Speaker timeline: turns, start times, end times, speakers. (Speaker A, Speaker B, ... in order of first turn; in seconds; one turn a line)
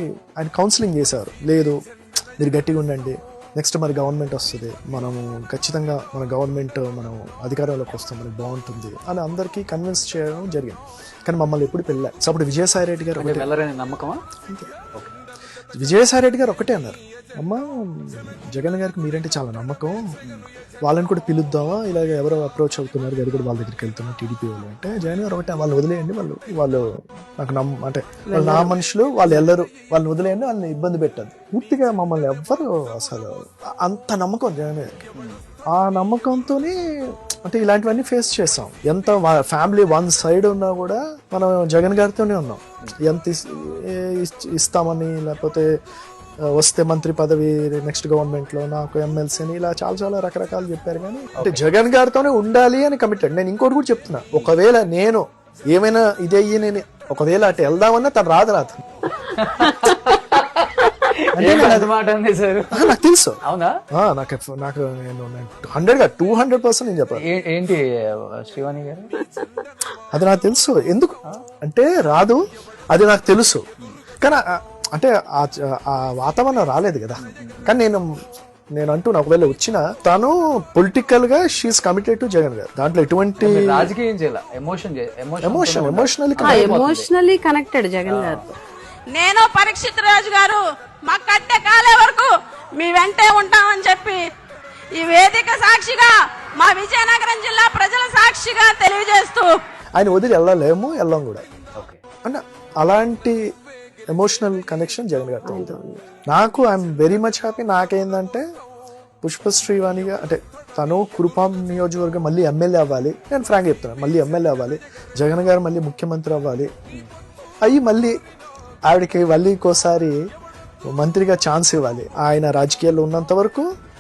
Speaker A: 0.4-1.8
Speaker A: 2.4-13.5
Speaker B: 13.2-14.2
Speaker A: 15.8-20.0
Speaker A: 20.9-26.8
Speaker A: 27.4-35.1
Speaker C: 28.3-28.7
Speaker A: 35.7-36.8
Speaker A: 37.5-45.7
Speaker A: 46.5-58.9
Speaker B: 51.4-51.6
Speaker B: 59.3-63.8
Speaker A: 61.4-61.9
Speaker A: 62.7-63.4
Speaker A: 63.9-67.2
Speaker B: 67.2-69.2
Speaker A: 70.1-73.7
Speaker A: 74.2-78.1
Speaker B: 77.2-77.8
Speaker A: 78.8-83.9
Speaker B: 83.4-87.1
Speaker A: 85.4-86.8
Speaker C: 86.4-88.5
Speaker B: 88.1-88.5
Speaker D: 89.1-94.2
Speaker D: 95.0-99.6
Speaker A: 100.0-101.4
Speaker A: 102.2-103.4
Speaker A: 104.1-108.4
Speaker C: 105.5-106.0
Speaker A: 109.2-116.7
Speaker A: 117.7-118.1
Speaker A: 118.9-120.2
Speaker A: 120.9-123.7